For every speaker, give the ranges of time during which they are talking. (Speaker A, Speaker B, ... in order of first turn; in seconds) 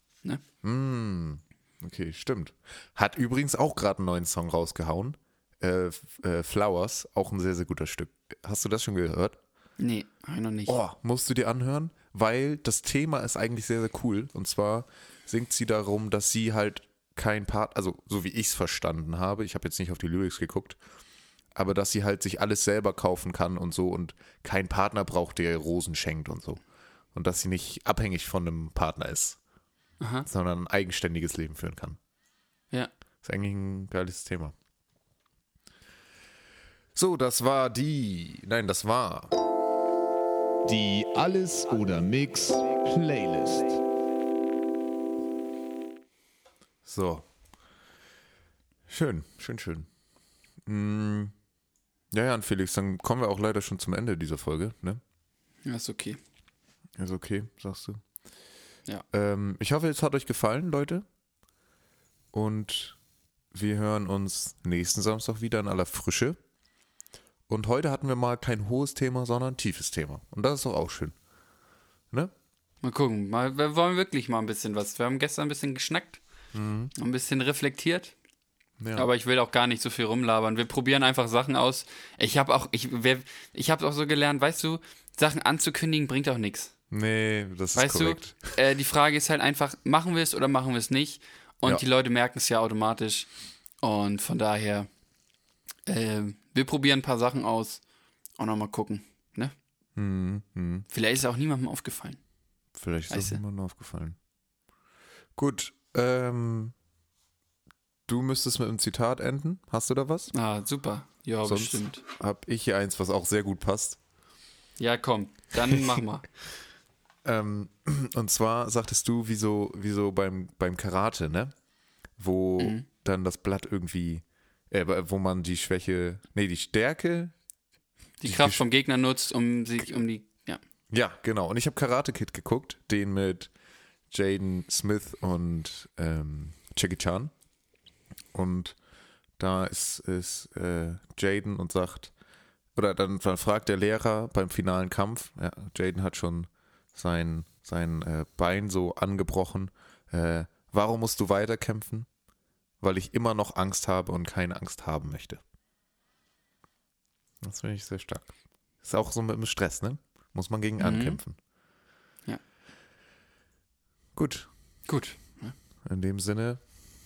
Speaker A: 0.6-9.4, 10.7-20.8, 21.5-26.6, 27.1-29.4, 30.3-32.0, 33.2-34.5, 37.0-39.3, 46.9-47.3, 48.9-49.9, 50.7-51.3, 52.1-55.0, 57.0-58.0, 59.1-61.0, 62.3-63.0, 63.5-66.4, 67.5-71.2, 76.5-76.9, 78.8-79.1, 86.9-88.6, 100.0-100.9, 102.8-104.2, 105.4-106.8, 108.1-110.3, 111.5-114.0, 117.2-121.5, 122.2-127.3, 128.2-128.6, 130.9-133.5, 134.1-137.3, 138.3-138.8, 139.4-142.1, 142.8-152.1, 152.8-155.4, 157.4-161.4, 164.2-164.5, 165.8-166.7
Speaker B: 9.8-10.8, 30.0-30.3, 55.6-56.2, 72.8-76.2, 77.0-78.1, 79.0-86.7, 87.8-93.3, 93.8-94.9, 95.9-97.8, 98.4-99.5, 100.9-102.2, 103.1-103.4, 110.3-112.0, 114.8-116.3, 122.6-122.8, 128.2-130.6, 160.8-161.2, 164.9-165.6
Speaker C: 40.6-43.8